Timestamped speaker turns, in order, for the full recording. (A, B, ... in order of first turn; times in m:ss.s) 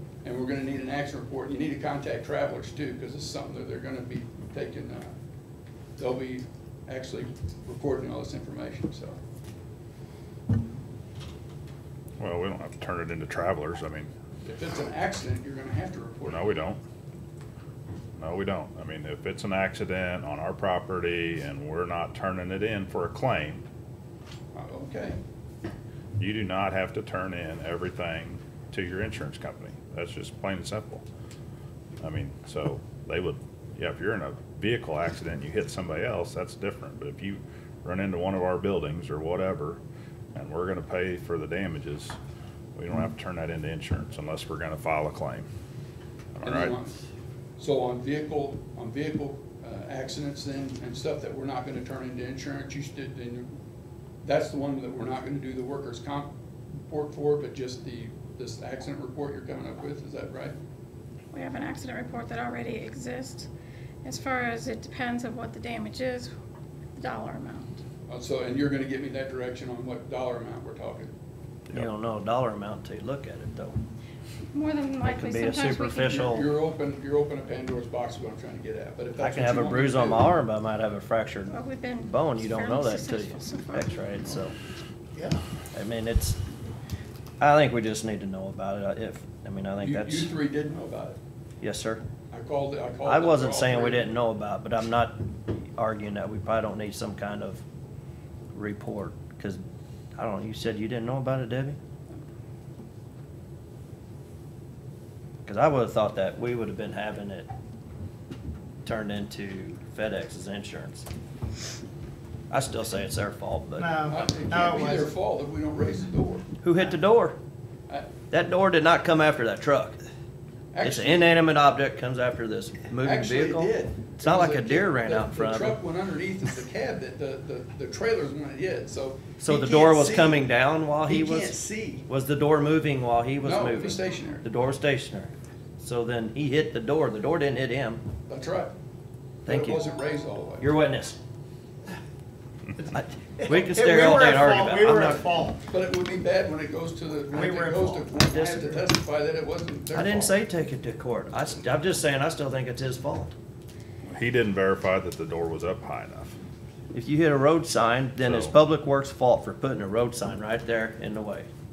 0:00.2-0:05.1 A
0:06.0-0:09.2 A
0:12.2-0:14.1 B
0:14.4-0:16.6 A
0:16.2-0:16.8 B
0:18.2-0:23.6 B
0:24.5-0:25.2 A
0:26.2-0:31.0 B
0:32.0-0:39.8 B
0:40.3-0:42.2 B
0:42.8-0:45.5 B
0:46.3-0:46.8 B
0:46.4-0:47.0 A
0:47.6-0:53.5 A
0:54.2-1:00.6 A
1:01.3-1:03.5 C
1:04.0-1:06.3 C
1:07.0-1:07.8 C
1:08.1-1:11.1 A
1:11.7-1:13.8 D
1:14.5-1:16.3 C
1:15.0-1:16.4 D
1:16.1-1:20.3 A
1:19.2-1:24.5 D
1:21.5-1:24.0 C
1:25.7-1:26.4 D
1:27.4-1:30.3 D
1:29.8-1:31.2 A
1:31.6-1:32.0 D
1:32.3-1:34.1 A
1:33.0-1:37.6 D
1:38.5-1:39.6 D
1:40.1-1:41.8 D
1:45.4-1:47.5 D
1:48.8-1:51.1 D
1:52.5-1:54.0 D
1:53.8-1:55.1 E
1:54.1-1:56.4 A
1:56.6-1:57.4 D
1:58.3-2:00.0 D
2:00.7-2:01.2 A
2:00.8-2:05.8 D
2:03.0-2:10.4 A
2:09.4-2:18.0 D
2:11.0-2:12.1 A
2:13.4-2:14.4 A
2:18.3-2:18.7 A
2:19.4-2:19.8 D
2:19.5-2:20.7 A
2:20.6-2:21.2 D
2:22.8-2:25.6 E
2:22.9-2:25.3 D
2:25.7-2:30.4 A
2:27.3-2:28.2 E
2:28.3-2:28.8 D
2:29.9-2:33.3 D
2:34.0-2:36.4 B
2:36.9-2:41.5 D
2:38.2-2:38.6 B